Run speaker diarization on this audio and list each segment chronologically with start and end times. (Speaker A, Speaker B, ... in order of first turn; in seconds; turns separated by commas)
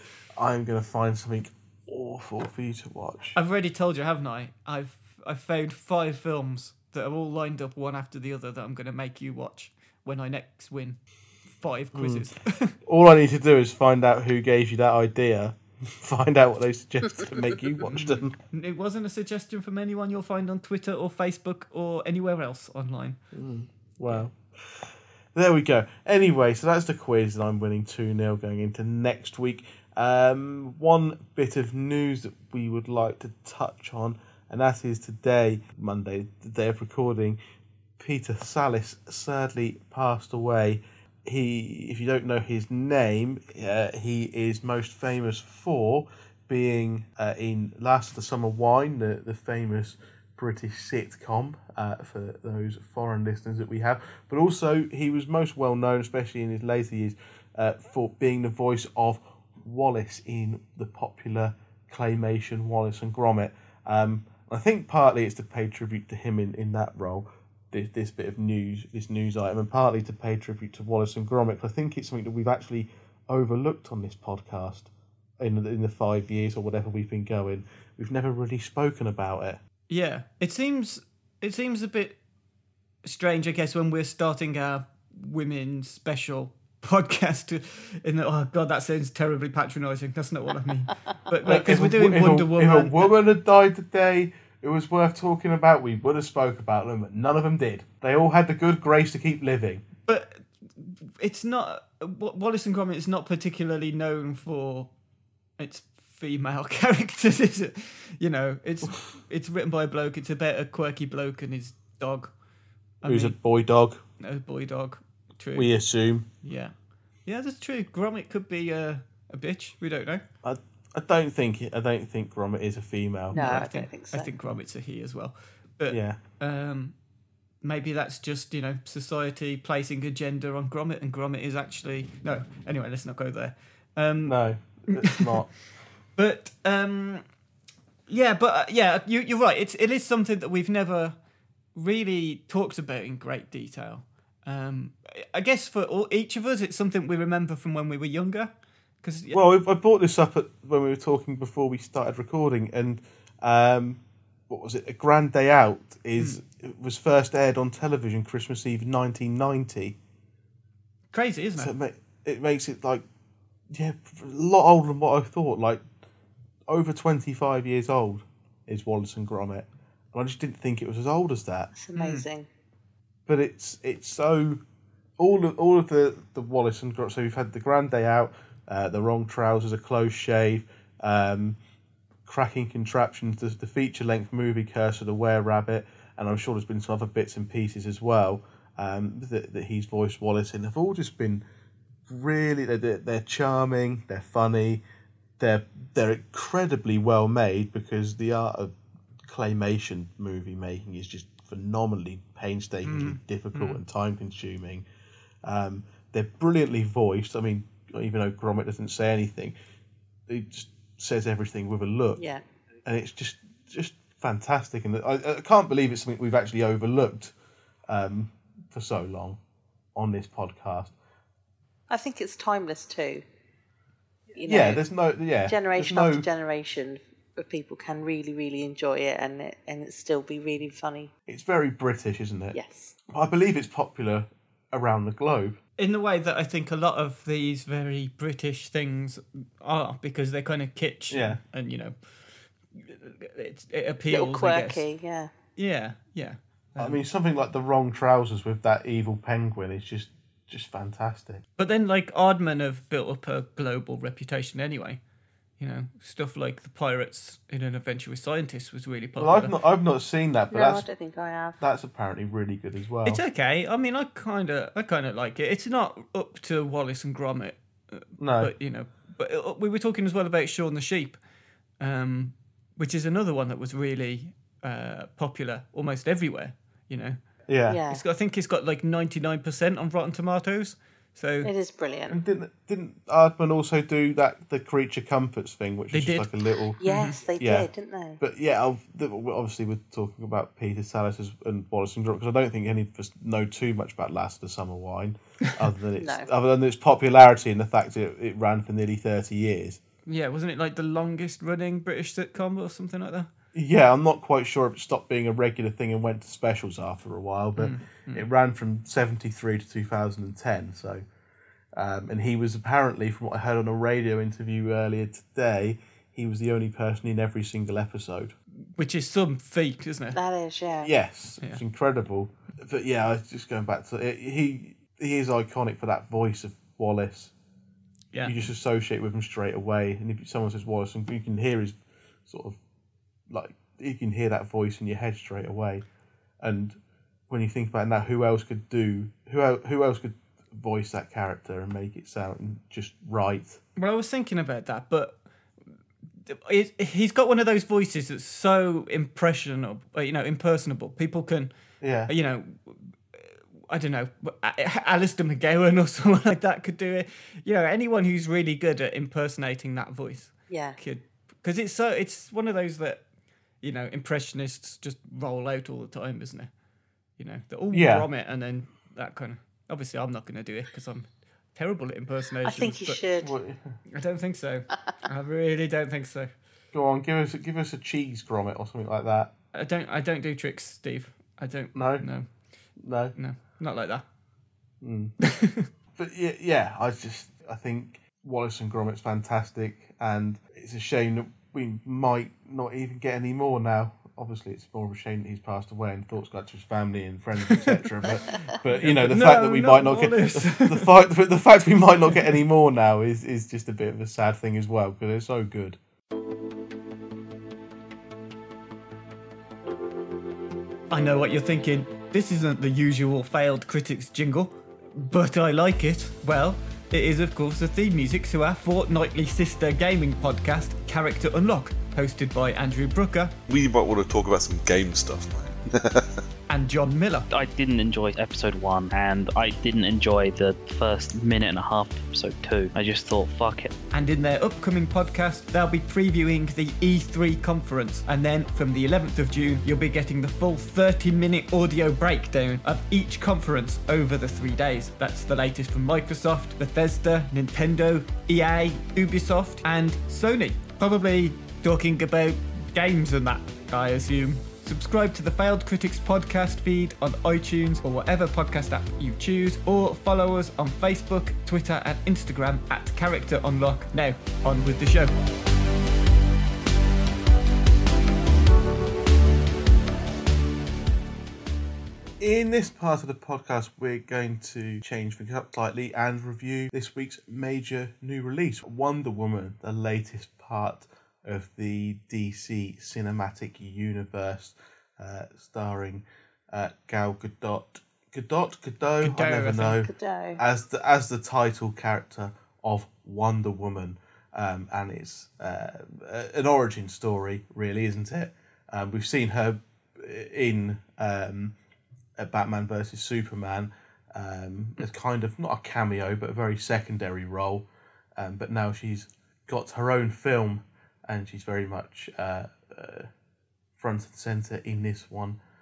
Speaker A: 0.3-3.4, Speaker B: 3.3-12.8, Speaker A: 11.9-12.3, Speaker A: 12.8-18.4, Speaker B: 17.9-23.2, Speaker A: 23.3-37.4, Speaker A: 38.0-79.6, Speaker B: 79.9-82.2, Speaker B: 83.0-93.1, Speaker A: 91.5-99.8, Speaker B: 100.1-104.9, Speaker B: 105.6-112.3, Speaker B: 113.0-113.3, Speaker A: 113.0-114.0, Speaker B: 114.2-115.7, Speaker A: 115.5-116.3, Speaker B: 116.4-116.7, Speaker B: 117.2-120.2, Speaker A: 120.4-123.4, Speaker C: 123.3-124.3, Speaker B: 123.3-126.9, Speaker A: 125.9-126.2, Speaker B: 127.6-134.4, Speaker A: 134.2-135.5, Speaker B: 134.9-135.4, Speaker B: 136.2-137.2, Speaker B: 138.1-141.2, Speaker B: 141.7-148.5, Speaker B: 149.0-149.4, Speaker A: 149.3-160.0, Speaker B: 161.1-161.7, Speaker A: 161.6-163.0, Speaker A: 163.7-165.8, Speaker A: 166.7-171.7, Speaker C: 171.7-172.5, Speaker B: 171.9-172.2, Speaker A: 173.3-174.6, Speaker A: 175.2-181.6, Speaker A: 182.2-191.4, Speaker A: 192.1-194.8, Speaker A: 195.4-204.8, Speaker B: 202.8-203.8, Speaker A: 205.4-209.5, Speaker A: 210.3-212.2, Speaker C: 212.2-212.4, Speaker A: 212.8-217.3, Speaker A: 217.9-219.4, Speaker A: 219.9-220.9, Speaker C: 221.9-223.2, Speaker C: 224.3-224.8, Speaker A: 224.4-226.2, Speaker C: 225.4-231.1, Speaker A: 231.3-232.6, Speaker C: 232.5-232.9, Speaker A: 233.1-235.6, Speaker B: 235.8-241.9, Speaker A: 241.1-241.4, Speaker B: 242.7-244.8, Speaker C: 244.1-245.3, Speaker B: 245.6-247.0, Speaker A: 246.8-251.4, Speaker B: 251.6-255.0, Speaker B: 255.6-259.5, Speaker A: 259.2-260.9, Speaker C: 260.5-261.6, Speaker A: 261.6-263.2, Speaker B: 263.1-271.2, Speaker A: 268.2-268.5, Speaker B: 271.8-277.2, Speaker A: 277.5-277.8, Speaker C: 277.7-278.0, Speaker B: 277.9-281.5, Speaker C: 281.4-282.2, Speaker A: 282.1-286.8, Speaker B: 285.9-286.3, Speaker C: 286.8-288.2, Speaker B: 286.8-287.2, Speaker A: 287.4-287.7, Speaker A: 288.2-299.8, Speaker C: 296.0-296.3, Speaker B: 300.1-303.3, Speaker A: 303.5-311.0, Speaker B: 307.6-308.2, Speaker A: 311.7-318.3, Speaker B: 318.8-320.2, Speaker C: 320.1-320.9, Speaker A: 320.8-327.3, Speaker A: 328.2-332.6, Speaker A: 333.3-335.8, Speaker A: 336.4-336.8, Speaker A: 337.3-343.6, Speaker B: 343.8-345.2, Speaker B: 346.3-351.5, Speaker A: 351.8-352.1, Speaker B: 352.1-363.0, Speaker C: 360.5-360.8, Speaker B: 363.6-366.5, Speaker B: 367.2-373.0, Speaker A: 367.7-368.1, Speaker C: 372.4-373.3, Speaker A: 373.2-373.7, Speaker B: 373.9-376.3, Speaker A: 376.7-379.3, Speaker B: 379.5-382.2, Speaker A: 381.7-382.1, Speaker A: 382.8-383.1, Speaker B: 383.1-384.0, Speaker A: 384.8-385.1, Speaker B: 385.2-385.7, Speaker A: 385.9-405.8, Speaker B: 398.5-400.9, Speaker B: 410.9-423.3, Speaker D: 423.5-426.2, Speaker B: 426.5-427.3, Speaker E: 427.3-433.7, Speaker B: 433.9-465.1, Speaker A: 472.2-501.6, Speaker B: 489.0-489.8, Speaker C: 489.8-490.4, Speaker A: 502.2-513.1, Speaker A: 513.8-515.4